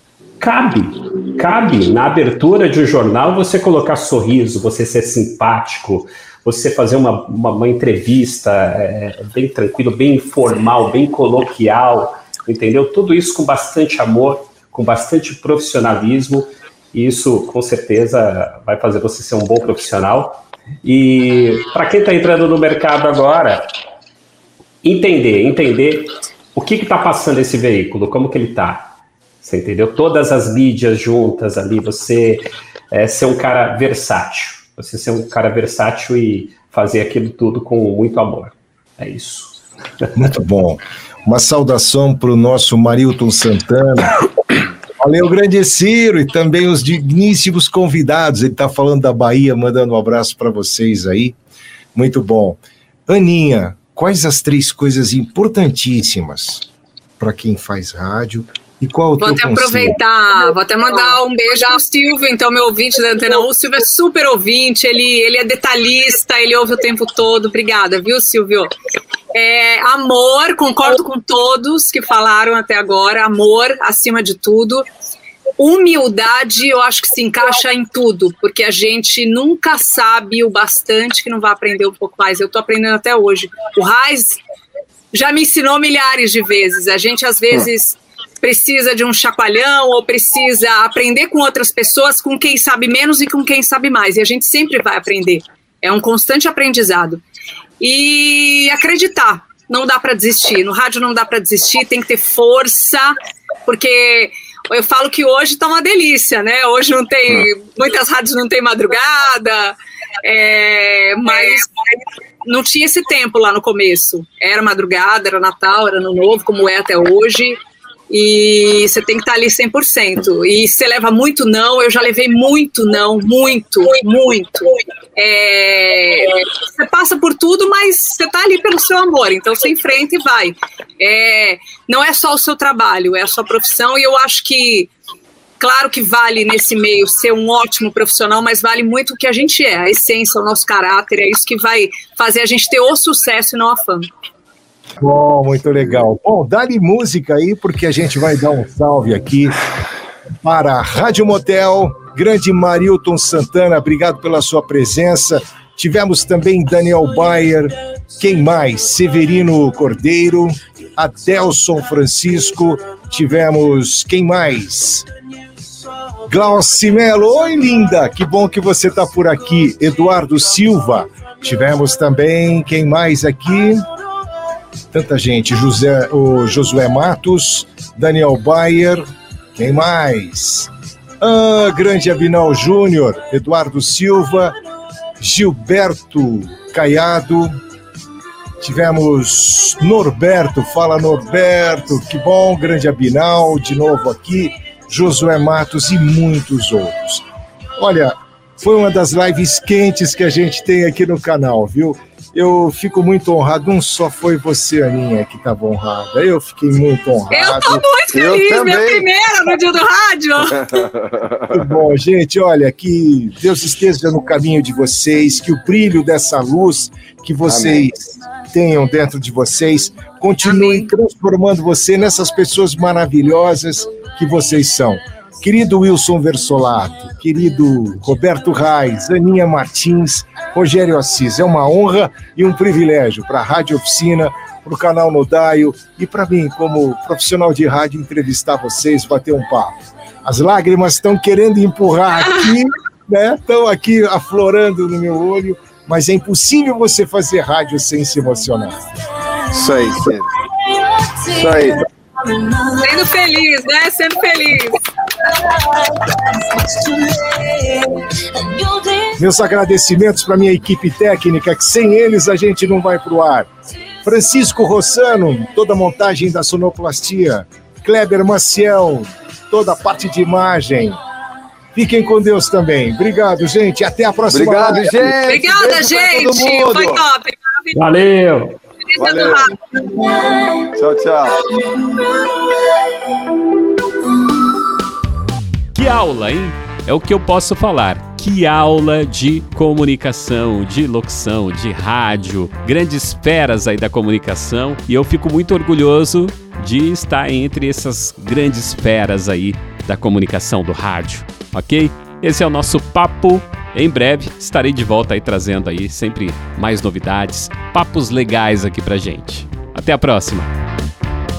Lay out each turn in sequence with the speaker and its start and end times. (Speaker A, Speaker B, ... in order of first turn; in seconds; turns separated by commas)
Speaker A: 0.4-23.7, Speaker A: 24.8-39.6, Speaker B: 40.1-44.2, Speaker B: 45.0-51.4, Speaker B: 51.9-56.7, Speaker B: 57.2-60.0, Speaker C: 59.2-68.7, Speaker C: 69.3-74.8, Speaker C: 75.6-84.4, Speaker C: 85.1-97.2, Speaker C: 97.8-111.7, Speaker C: 112.4-134.9, Speaker C: 135.6-144.1, Speaker B: 145.0-149.6, Speaker B: 150.4-165.1, Speaker B: 166.3-173.8, Speaker B: 174.9-184.6, Speaker B: 185.2-187.6, Speaker B: 188.6-197.2, Speaker B: 197.8-207.8, Speaker C: 207.3-210.8, Speaker D: 208.1-209.1, Speaker D: 210.6-211.5, Speaker B: 211.5-248.8, Speaker D: 217.4-217.9, Speaker C: 220.5-220.8, Speaker D: 249.5-250.3, Speaker D: 251.2-251.8, Speaker C: 252.8-254.8, Speaker B: 259.1-263.5, Speaker B: 264.0-271.0, Speaker B: 271.7-275.2, Speaker D: 274.3-277.0, Speaker C: 275.2-278.0, Speaker A: 277.7-278.6, Speaker C: 278.9-280.1, Speaker D: 279.0-279.5, Speaker D: 280.6-281.4, Speaker E: 285.7-310.5